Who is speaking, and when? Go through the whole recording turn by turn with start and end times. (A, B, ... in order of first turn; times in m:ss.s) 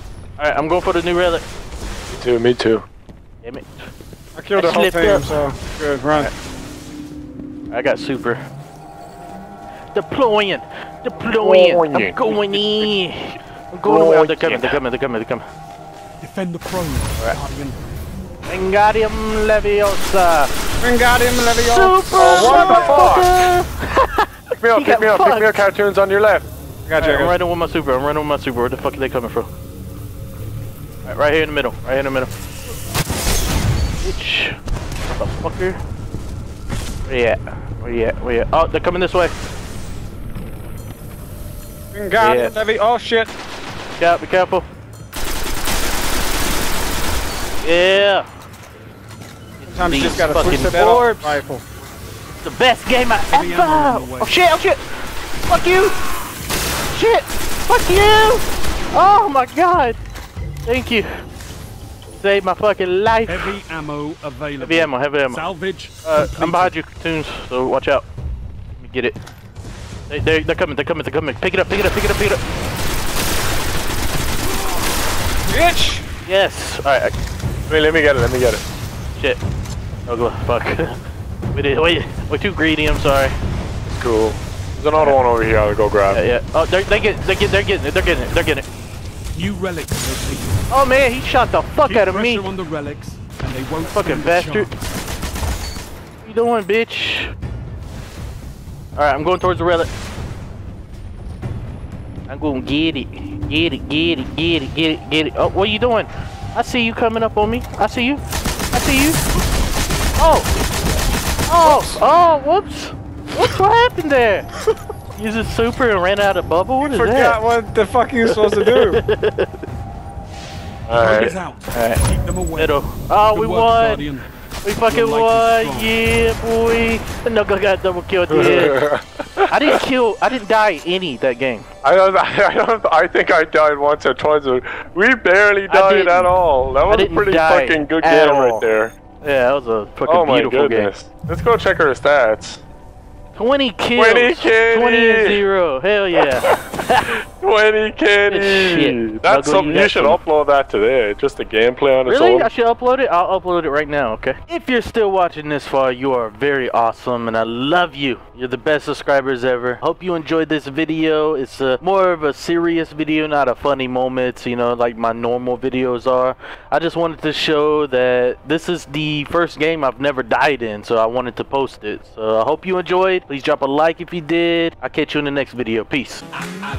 0:00.4-0:01.4 A
0:02.1-0:02.8 B
0:03.4-0:03.9 A
0:04.4-0:06.3 C
0:04.6-0:05.4 A
0:07.7-0:08.4 A
0:09.9-0:15.4 A
0:11.4-0:12.9 B
0:13.8-0:14.8 B
0:16.2-0:17.8 D
0:18.5-0:20.5 A
0:20.8-0:23.0 C
0:21.7-0:25.5 A
0:22.2-0:23.3 B
0:24.6-0:26.5 B
0:26.9-0:27.3 C
0:27.0-0:29.5 A
0:31.0-0:32.3 A
0:34.0-0:35.8 A
0:37.1-0:39.4 A
0:41.9-0:43.3 C
0:42.2-0:42.5 A
0:44.0-0:44.7 A
0:47.6-0:48.3 A
0:49.6-0:51.4 A
0:49.7-0:51.6 C
0:52.4-0:54.8 A
0:53.3-0:54.3 D
0:55.5-0:56.0 A
0:56.9-1:00.0 A
1:00.6-1:01.1 A
1:02.2-1:03.5 A
1:03.3-1:06.7 D
1:04.6-1:05.4 A
1:06.0-1:08.1 A
1:08.8-1:09.2 A
1:10.1-1:12.4 A
1:15.5-1:16.0 C
1:16.3-1:17.1 A
1:17.7-1:18.6 B
1:19.2-1:19.4 A
1:20.1-1:21.0 A
1:21.5-1:23.4 A
1:23.9-1:26.2 B
1:26.1-1:28.7 A
1:29.3-1:30.6 D
1:30.7-1:32.5 A
1:31.8-1:34.8 D
1:33.8-1:34.7 A
1:36.2-1:37.3 A
1:39.0-1:39.9 A
1:42.3-1:49.2 A
1:50.2-1:50.5 A
1:51.5-1:54.5 A
1:55.1-1:57.4 A
1:56.8-1:59.0 C
1:58.2-1:59.6 A
2:00.9-2:01.4 B
2:01.0-2:02.8 D
2:01.7-2:02.0 A
2:02.6-2:04.1 A
2:03.3-2:04.3 D
2:04.6-2:08.8 A
2:04.8-2:05.9 D
2:08.3-2:09.8 B
2:09.5-2:11.7 A
2:11.8-2:18.9 B
2:15.7-2:16.3 A
2:16.9-2:18.7 A
2:19.2-2:20.9 A
2:20.1-2:22.6 B
2:23.4-2:27.2 A
2:24.0-2:25.4 B
2:26.2-2:26.6 B
2:27.4-2:32.5 B
2:28.3-2:30.2 A
2:32.1-2:56.2 A